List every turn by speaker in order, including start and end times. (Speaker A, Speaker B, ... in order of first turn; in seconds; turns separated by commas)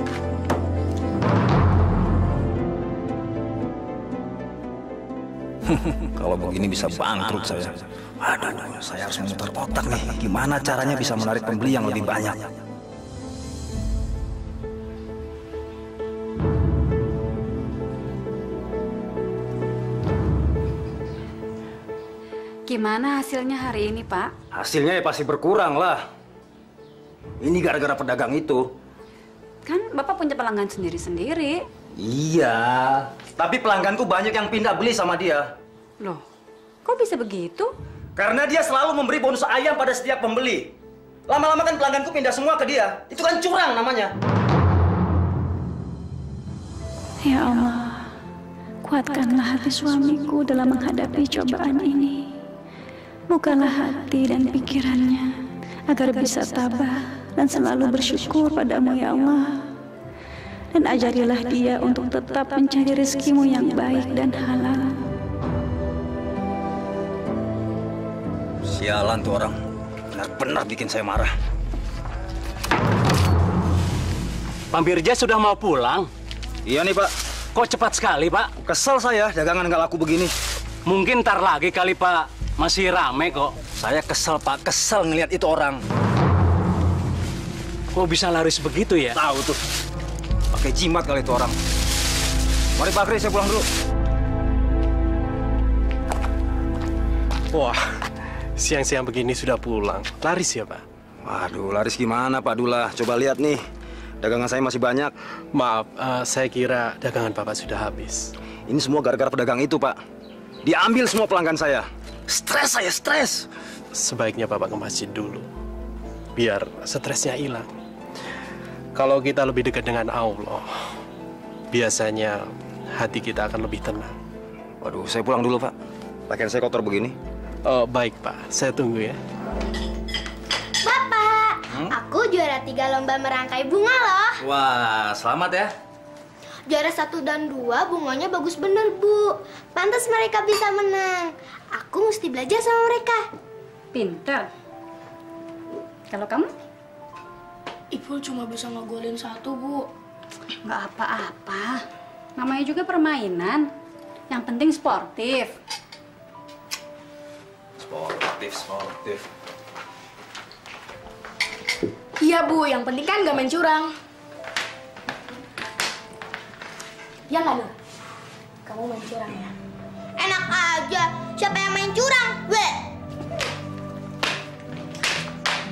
Speaker A: 5.7-12.5, Speaker B: 22.7-24.3, Speaker A: 24.5-26.0, Speaker A: 27.4-28.7, Speaker B: 29.6-31.6, Speaker A: 31.9-35.5, Speaker B: 36.8-37.7, Speaker A: 38.1-40.7, Speaker A: 41.3-44.1, Speaker C: 47.2-48.1, Speaker C: 48.8-52.3, Speaker C: 53.3-55.4, Speaker C: 55.9-59.6, Speaker C: 60.7-65.0, Speaker A: 68.6-69.6, Speaker A: 70.1-71.3, Speaker D: 74.7-76.1, Speaker A: 76.7-77.1, Speaker D: 77.5-78.5, Speaker A: 78.6-80.3, Speaker D: 80.9-83.5, Speaker A: 83.8-85.8, Speaker D: 87.9-89.2, Speaker A: 89.1-89.6, Speaker A: 90.5-91.5, Speaker A: 92.8-93.7, Speaker E: 97.5-97.8, Speaker E: 98.6-100.8, Speaker A: 101.2-103.6, Speaker A: 104.2-105.1, Speaker E: 105.5-108.3, Speaker A: 108.7-110.0, Speaker A: 110.6-113.4, Speaker E: 114.0-115.4, Speaker E: 116.4-117.7, Speaker E: 119.0-120.6, Speaker E: 121.7-122.4, Speaker E: 123.0-124.2, Speaker A: 124.8-125.7, Speaker A: 126.3-127.1, Speaker E: 127.7-129.2, Speaker F: 130.8-134.4, Speaker A: 134.4-135.7, Speaker F: 136.7-143.2, Speaker B: 143.9-144.5, Speaker B: 146.1-146.5, Speaker G: 147.9-149.9, Speaker B: 150.6-151.8, Speaker B: 152.4-153.7, Speaker B: 154.3-155.5, Speaker A: 157.8-159.2, Speaker G: 162.2-163.9, Speaker G: 167.3-167.7, Speaker G: 168.7-169.5, Speaker F: 170.2-172.7